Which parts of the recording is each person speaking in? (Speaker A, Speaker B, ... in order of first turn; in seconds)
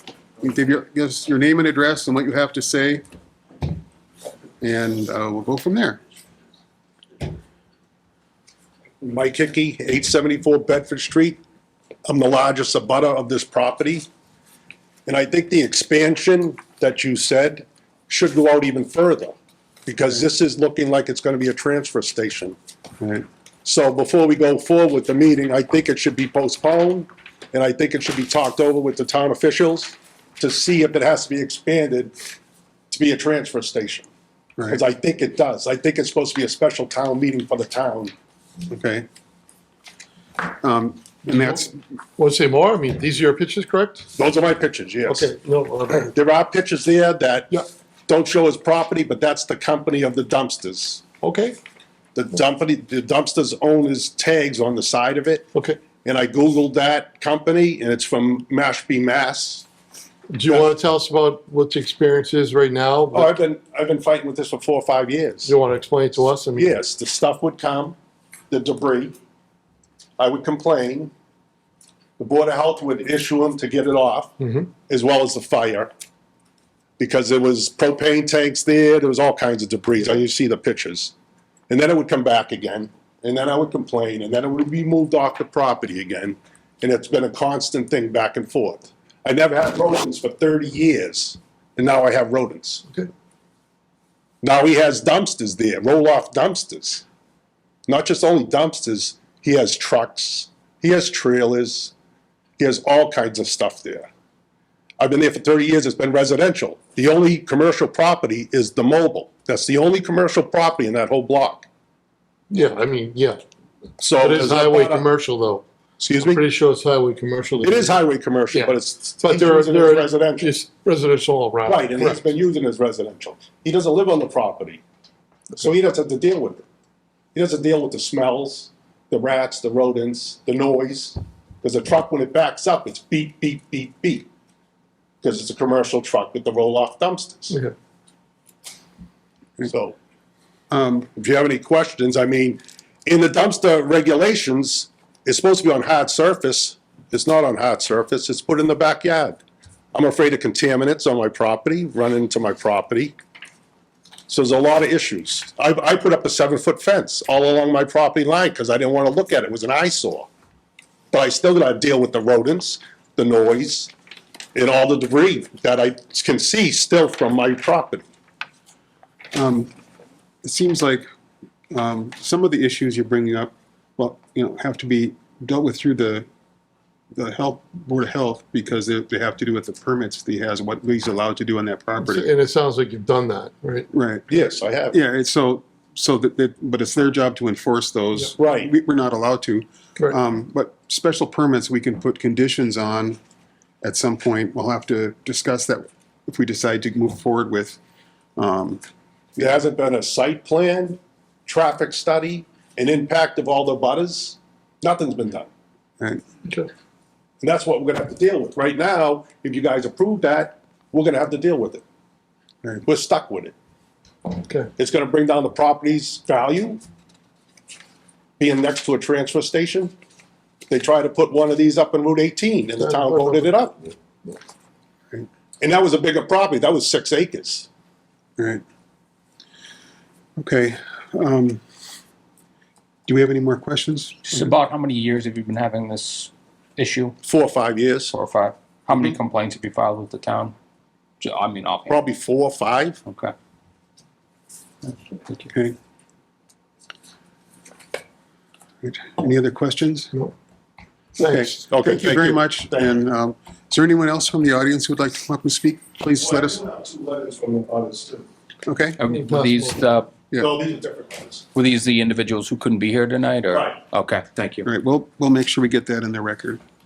Speaker A: 0.4-3.0, 4.6-6.0, 38.7-39.0, 40.5-41.8, 140.7-141.1, 169.3-169.7, 170.4-171.1, 171.7-176.3, 177.1-182.3, 183.9-184.2, 184.9-193.2, 193.8-197.8, 198.4-198.8, 230.4-231.6, 233.1-234.6, 248.8-250.1, 251.3-256.6, 258.6-259.0, 264.6-266.6
Speaker B: 9.0-11.4, 12.1-14.1, 15.1-22.6, 23.6-32.1, 32.9-34.1, 34.7-38.1, 44.1-45.3, 46.0-51.0, 52.1-55.4, 56.0-59.7, 63.1-65.5, 66.5-68.0, 68.5-69.2, 70.2-71.1, 72.2-74.3, 74.9-75.9, 77.0-81.1, 81.7-92.8, 94.4-97.0, 97.9-101.9, 102.6-104.1, 105.0-111.7, 114.0-115.0, 116.0-116.4, 117.6-120.5, 121.7-124.8, 125.6-126.6, 127.3-134.3, 135.2-137.6, 139.6-139.9, 141.2-149.4, 149.9-153.2, 154.3-160.3, 161.1-163.9, 164.5-168.0, 184.3-184.9, 188.4-188.7, 199.4-205.5, 207.4-211.8, 212.8-213.5, 214.8-216.8, 218.4-219.9, 220.7-223.8, 225.6-227.7, 237.2-238.1, 241.9-243.0, 251.7-253.0, 256.1-258.2, 260.4-261.5, 263.5-263.8
Speaker C: 41.3-41.6, 42.2-44.1, 45.0-46.1, 51.2-51.6, 55.5-55.8, 60.3-63.3, 65.4-66.7, 74.4-74.7, 112.5-113.4, 114.2-115.6, 116.2-118.0, 118.5-122.2, 182.0-183.9, 222.8-223.5, 251.2-251.6, 259.1-259.8
Speaker D: 234.2-237.2, 238.1-240.5, 241.2-242.0, 243.0-243.3, 244.8-245.4, 259.0-260.1, 261.5-264.7